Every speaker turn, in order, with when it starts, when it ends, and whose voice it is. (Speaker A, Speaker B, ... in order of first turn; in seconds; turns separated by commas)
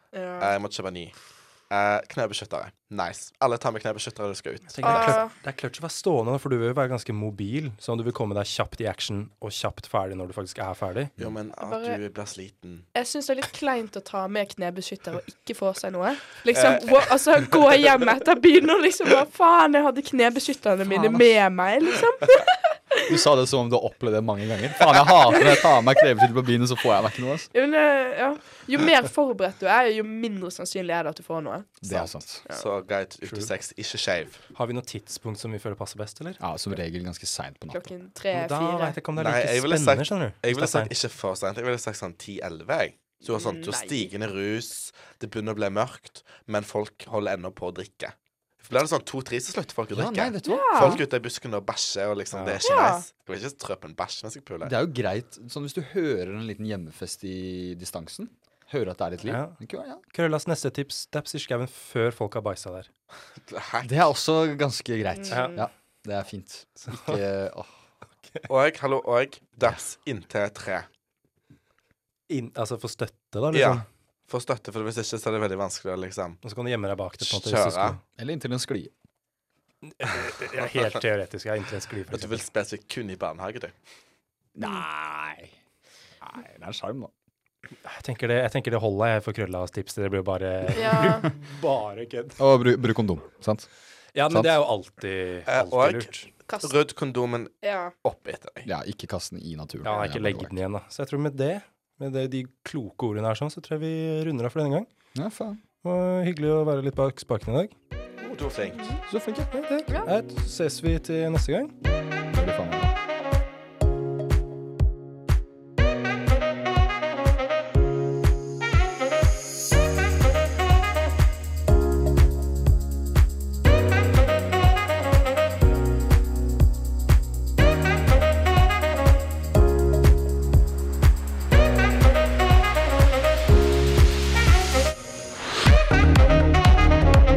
Speaker A: 0.1-0.5, Speaker B: 0.4-1.1, Speaker B: 1.7-5.2, Speaker C: 4.7-11.1, Speaker A: 4.8-5.3, Speaker B: 11.2-12.9, Speaker A: 11.6-12.0, Speaker A: 12.9-23.1, Speaker B: 16.5-17.2, Speaker D: 20.8-21.3, Speaker D: 23.1-27.5, Speaker A: 27.5-31.8, Speaker D: 31.8-32.4, Speaker B: 31.9-34.5, Speaker C: 34.5-36.4, Speaker D: 36.4-37.9, Speaker A: 37.7-39.0, Speaker C: 38.3-40.9, Speaker B: 39.1-54.7, Speaker A: 43.2-44.1, Speaker D: 49.9-51.0, Speaker A: 50.4-51.0, Speaker C: 52.3-52.6, Speaker A: 52.6-53.0, Speaker D: 54.6-60.0, Speaker C: 59.2-59.6, Speaker C: 60.1-62.9, Speaker B: 63.5-63.9, Speaker D: 63.8-67.7, Speaker A: 65.2-65.6, Speaker C: 65.3-65.6, Speaker C: 66.8-67.2, Speaker B: 68.5-70.8, Speaker C: 72.3-73.8, Speaker B: 73.5-76.4, Speaker C: 76.4-78.0, Speaker B: 77.2-78.0, Speaker D: 78.2-78.9, Speaker C: 79.9-82.4, Speaker B: 82.1-83.7, Speaker D: 84.5-85.5, Speaker D: 86.2-87.1, Speaker C: 87.8-92.4, Speaker A: 90.7-91.3, Speaker D: 92.4-93.7, Speaker C: 94.1-96.3, Speaker D: 94.3-94.5, Speaker B: 95.5-98.7, Speaker A: 96.5-96.8, Speaker A: 97.6-97.9, Speaker D: 98.6-100.5, Speaker C: 99.8-104.9, Speaker D: 105.1-105.6, Speaker C: 105.8-107.7, Speaker B: 108.2-108.9, Speaker D: 109.1-109.5, Speaker C: 109.5-111.7, Speaker D: 112.3-112.9